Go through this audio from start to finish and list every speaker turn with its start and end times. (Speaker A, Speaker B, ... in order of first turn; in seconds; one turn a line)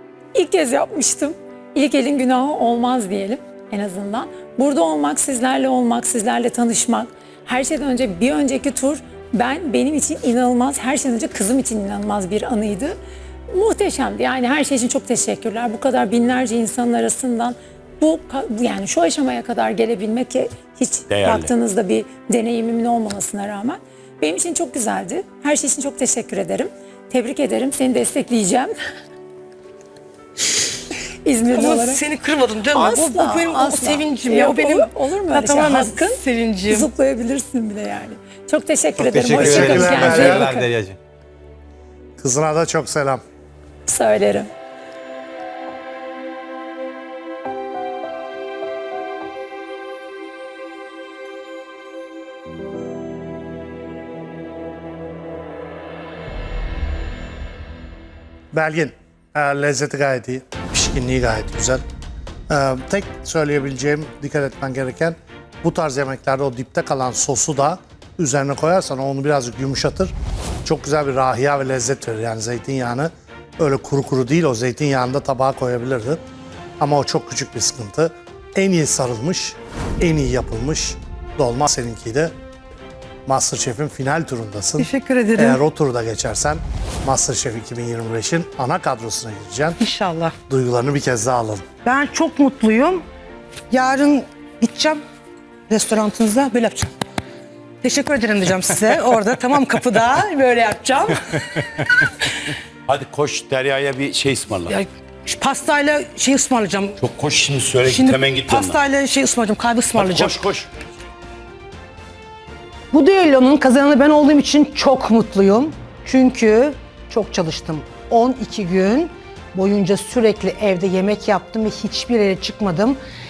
Speaker A: 0.3-13.0
Speaker A: 13.5-28.7
Speaker B: 21.1-21.5
Speaker A: 31.2-32.0
Speaker C: 31.5-36.9
Speaker A: 32.7-40.7
Speaker D: 39.0-40.5
Speaker E: 39.0-41.0
Speaker D: 42.2-43.2
Speaker A: 43.9-44.5
Speaker D: 58.5-61.8
Speaker D: 62.5-70.1
Speaker D: 70.6-76.2
Speaker D: 76.8-82.3
Speaker D: 83.3-89.8
Speaker C: 84.8-85.6
Speaker C: 89.8-90.3
Speaker D: 90.5-91.6
Speaker C: 91.8-93.0
Speaker C: 93.7-95.0
Speaker C: 95.7-96.9
Speaker C: 97.8-101.4
Speaker B: 102.9-104.8
Speaker C: 104.7-107.0
Speaker B: 107.0-108.8
Speaker C: 107.8-110.4
Speaker B: 109.9-110.7
Speaker C: 112.9-123.0